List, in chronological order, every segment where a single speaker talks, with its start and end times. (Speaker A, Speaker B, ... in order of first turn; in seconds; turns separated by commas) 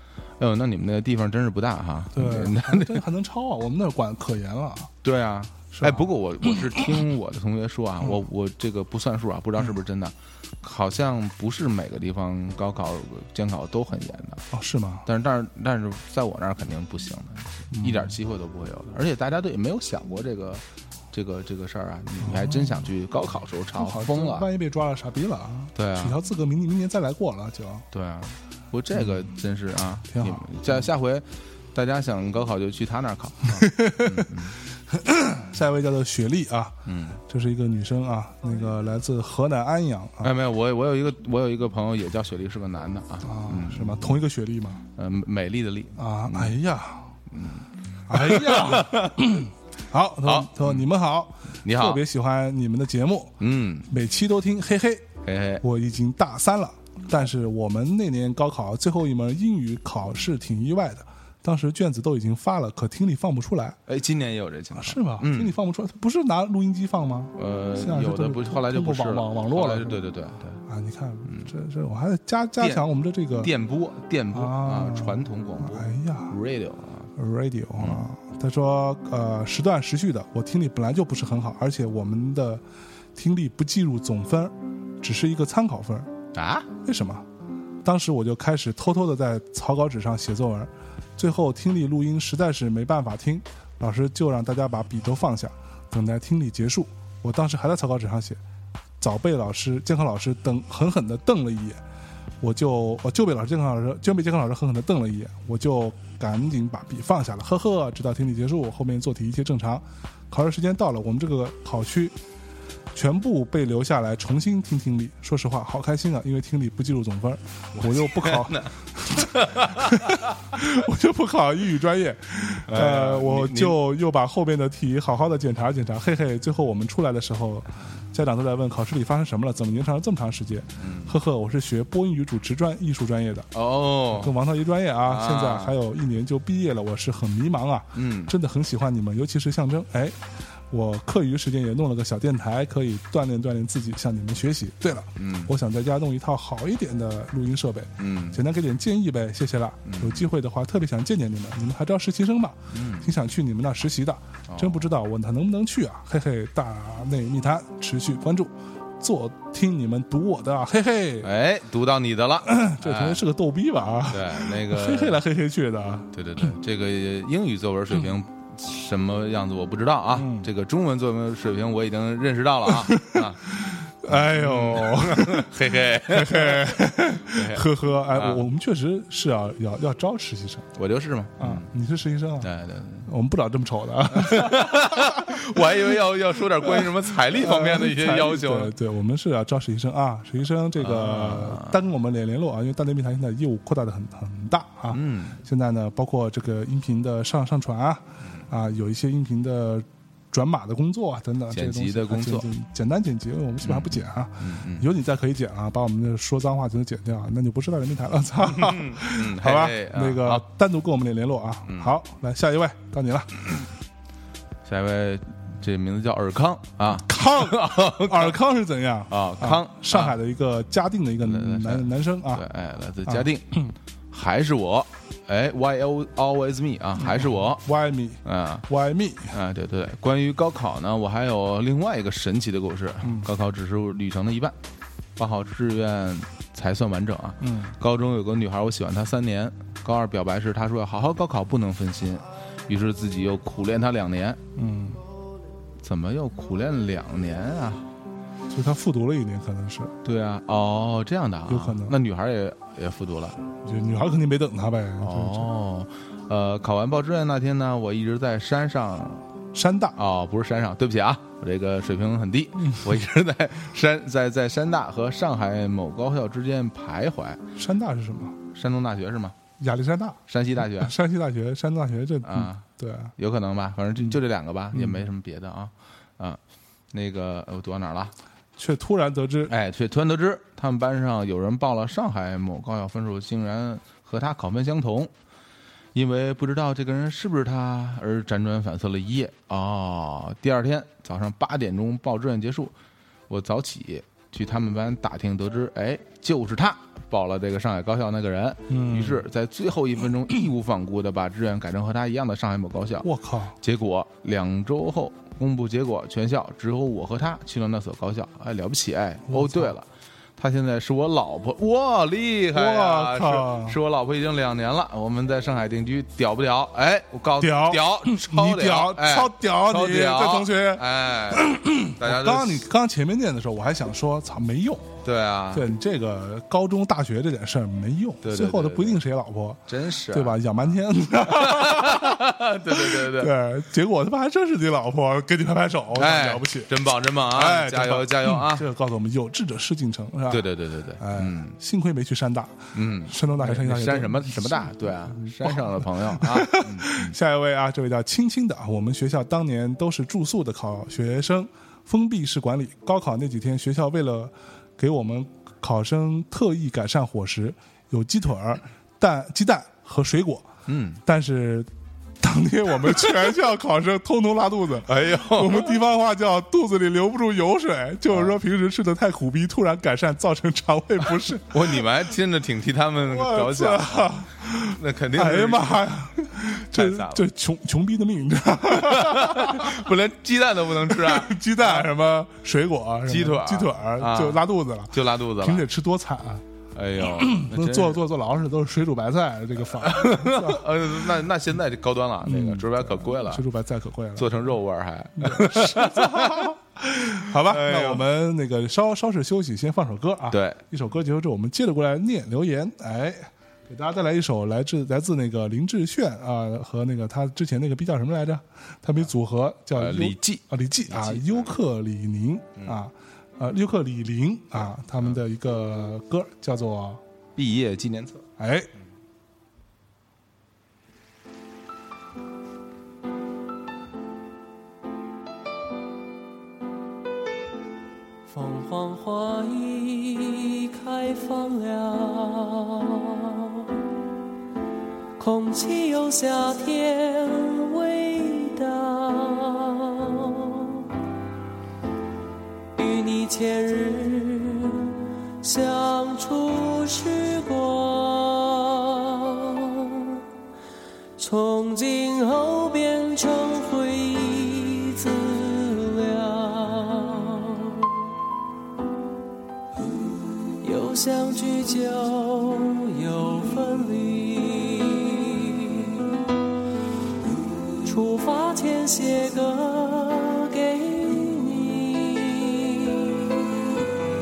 Speaker A: 0.4-3.0, Speaker B: 2.1-4.9, Speaker A: 5.0-14.4, Speaker B: 5.7-6.7, Speaker B: 14.5-15.1, Speaker A: 15.0-24.5, Speaker B: 17.7-18.1, Speaker B: 22.2-22.8, Speaker B: 23.8-27.9, Speaker A: 25.7-26.2, Speaker A: 27.9-34.5, Speaker B: 30.1-30.6, Speaker B: 33.5-40.3, Speaker A: 36.8-37.2, Speaker A: 40.2-44.1, Speaker B: 43.2-44.8, Speaker A: 45.0-46.6, Speaker B: 46.0-47.1, Speaker A: 47.3-49.3, Speaker B: 48.1-55.0, Speaker A: 50.2-50.9, Speaker A: 51.6-52.0, Speaker A: 53.4-53.9, Speaker A: 55.2-55.6, Speaker B: 55.6-63.8, Speaker A: 63.9-65.5, Speaker B: 64.7-70.0, Speaker A: 67.3-70.6, Speaker B: 70.7-73.5, Speaker A: 73.4-77.1, Speaker B: 74.3-76.3, Speaker B: 77.2-82.6, Speaker A: 77.8-78.0, Speaker B: 83.1-86.1, Speaker A: 86.3-86.7, Speaker B: 86.8-87.2, Speaker B: 87.8-98.4, Speaker B: 99.0-101.8, Speaker B: 102.4-112.2, Speaker B: 112.9-133.5, Speaker A: 117.7-120.3, Speaker A: 122.7-123.8, Speaker A: 130.8-131.1, Speaker A: 133.5-134.3, Speaker B: 134.1-140.2, Speaker A: 135.0-135.8, Speaker A: 137.9-138.3, Speaker B: 140.7-161.3, Speaker A: 145.2-145.5, Speaker A: 148.0-148.4, Speaker A: 149.8-150.2, Speaker A: 152.7-153.1, Speaker A: 154.5-154.8, Speaker A: 161.2-163.2, Speaker B: 162.4-166.1, Speaker A: 164.1-165.2, Speaker A: 166.1-173.4, Speaker B: 170.1-170.5, Speaker B: 172.7-180.7, Speaker A: 174.1-178.4, Speaker A: 180.7-181.7, Speaker B: 181.4-182.5, Speaker A: 182.4-183.1, Speaker B: 183.0-185.4, Speaker A: 184.1-188.7, Speaker B: 186.7-213.4, Speaker A: 190.8-191.8, Speaker A: 194.9-195.4, Speaker A: 201.5-202.5, Speaker A: 203.6-204.9, Speaker A: 208.5-210.4, Speaker A: 211.7-211.9, Speaker A: 214.7-218.3, Speaker B: 217.0-222.4, Speaker A: 219.1-220.2, Speaker A: 221.2-227.6, Speaker B: 223.0-223.7, Speaker B: 227.0-229.3, Speaker A: 228.2-228.7, Speaker A: 229.3-234.6, Speaker B: 233.0-233.3, Speaker A: 235.2-244.4, Speaker B: 237.4-237.7, Speaker B: 244.6-245.0, Speaker A: 245.8-247.9, Speaker B: 248.5-249.9, Speaker A: 250.0-253.4, Speaker B: 251.5-252.0, Speaker B: 253.6-255.5, Speaker A: 255.0-259.2, Speaker B: 259.5-259.9, Speaker A: 259.9-267.4, Speaker B: 267.6-268.4, Speaker A: 268.5-269.4, Speaker B: 269.6-273.1, Speaker A: 270.3-270.9, Speaker A: 272.2-272.6, Speaker A: 273.1-276.4, Speaker B: 274.7-275.0, Speaker A: 276.9-278.1, Speaker B: 278.6-279.5, Speaker A: 279.5-285.1, Speaker A: 285.9-292.7, Speaker A: 293.3-303.1, Speaker B: 298.7-299.2, Speaker B: 303.0-303.6, Speaker A: 303.6-322.6, Speaker B: 309.3-309.7, Speaker B: 312.5-313.8, Speaker B: 317.4-324.9, Speaker A: 325.0-325.7, Speaker B: 325.5-336.7, Speaker A: 328.2-329.0, Speaker A: 329.7-330.7, Speaker A: 331.2-333.3, Speaker A: 335.9-338.6, Speaker B: 337.2-360.4, Speaker A: 340.3-341.5, Speaker A: 342.7-347.1, Speaker A: 360.6-361.0, Speaker B: 361.0-361.7, Speaker B: 362.2-371.8, Speaker A: 364.9-365.8, Speaker A: 371.5-377.2, Speaker B: 373.0-379.9, Speaker A: 378.7-381.9, Speaker B: 380.9-386.4, Speaker A: 383.1-385.7, Speaker A: 386.7-388.0, Speaker B: 387.0-390.6, Speaker A: 389.8-393.4, Speaker B: 392.2-394.5, Speaker A: 394.1-396.5, Speaker B: 395.2-417.0, Speaker A: 397.3-398.0, Speaker A: 400.3-400.6, Speaker A: 409.7-411.5, Speaker A: 417.4-418.2, Speaker B: 418.4-418.7, Speaker C: 428.3-433.9, Speaker C: 435.2-440.9, Speaker C: 442.7-450.2, Speaker C: 451.2-458.1, Speaker C: 460.6-466.2, Speaker C: 467.3-473.6